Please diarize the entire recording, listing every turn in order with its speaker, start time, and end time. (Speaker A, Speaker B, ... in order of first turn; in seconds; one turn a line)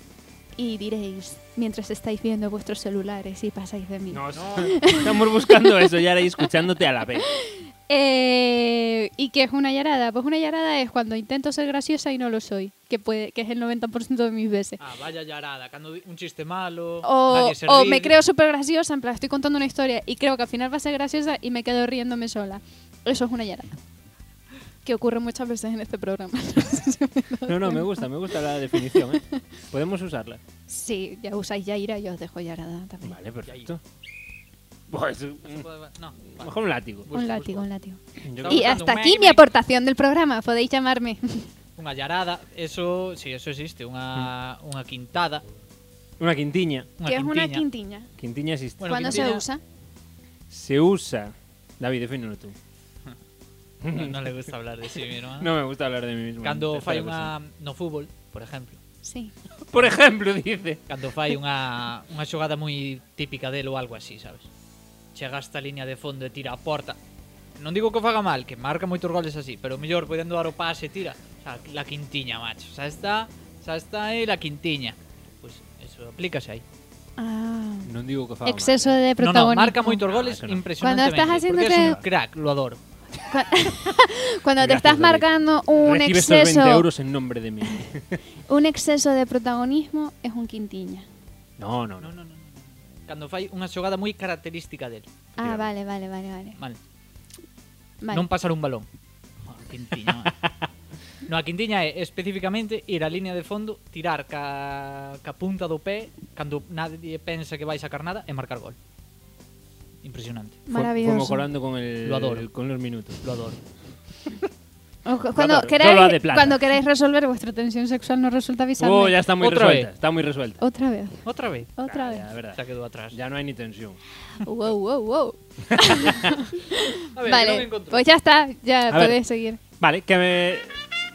Speaker A: 0.6-5.2
Speaker B: 4.1-7.3
Speaker C: 4.3-4.7
Speaker A: 7.5-14.8
Speaker C: 14.8-18.1
Speaker A: 17.0-23.8
Speaker A: 24.8-28.0
Speaker B: 27.4-30.4
Speaker A: 28.7-29.3
Speaker A: 30.7-33.2
Speaker B: 33.0-33.8
Speaker C: 33.5-33.7
Speaker B: 34.9-35.6
Speaker C: 35.4-37.7
Speaker B: 36.4-37.1
Speaker A: 37.1-41.5
Speaker B: 38.2-38.8
Speaker C: 38.4-39.4
Speaker C: 41.8-45.4
Speaker B: 46.2-46.9
Speaker C: 47.0-47.6
Speaker A: 47.0-48.1
Speaker B: 48.2-49.3
Speaker C: 48.8-49.4
Speaker A: 48.8-49.6
Speaker B: 50.5-52.5
Speaker B: 53.8-54.5
Speaker C: 53.9-55.5
Speaker B: 55.4-57.3
Speaker C: 56.4-58.8
Speaker A: 59.0-59.3
Speaker B: 59.7-60.8
Speaker C: 60.9-64.5
Speaker C: 65.1-67.0
Speaker C: 67.6-76.6
Speaker A: 77.2-77.9
Speaker B: 77.8-79.0
Speaker A: 78.4-80.0
Speaker C: 79.2-82.8
Speaker B: 80.0-80.7
Speaker A: 80.8-82.0
Speaker B: 81.7-82.0
Speaker A: 83.3-86.8
Speaker B: 84.6-88.2
Speaker A: 88.5-91.1
Speaker B: 91.6-92.1
Speaker C: 92.0-95.1
Speaker B: 95.4-95.7
Speaker A: 95.4-96.6
Speaker A: 98.0-98.2
Speaker C: 98.1-98.9
Speaker C: 99.4-100.5
Speaker C: 101.2-108.8
Speaker C: 110.0-110.6
Speaker A: 110.7-111.5
Speaker B: 110.7-113.2
Speaker C: 112.0-112.5
Speaker C: 113.2-113.6
Speaker A: 115.0-119.2
Speaker B: 115.3-116.6
Speaker B: 118.8-120.6
Speaker C: 119.4-119.9
Speaker A: 120.6-122.2
Speaker C: 121.2-121.7
Speaker B: 121.9-124.0
Speaker C: 122.5-123.2
Speaker A: 124.4-129.6
Speaker B: 125.7-126.4
Speaker C: 127.1-128.0
Speaker B: 128.9-129.2
Speaker B: 129.8-130.8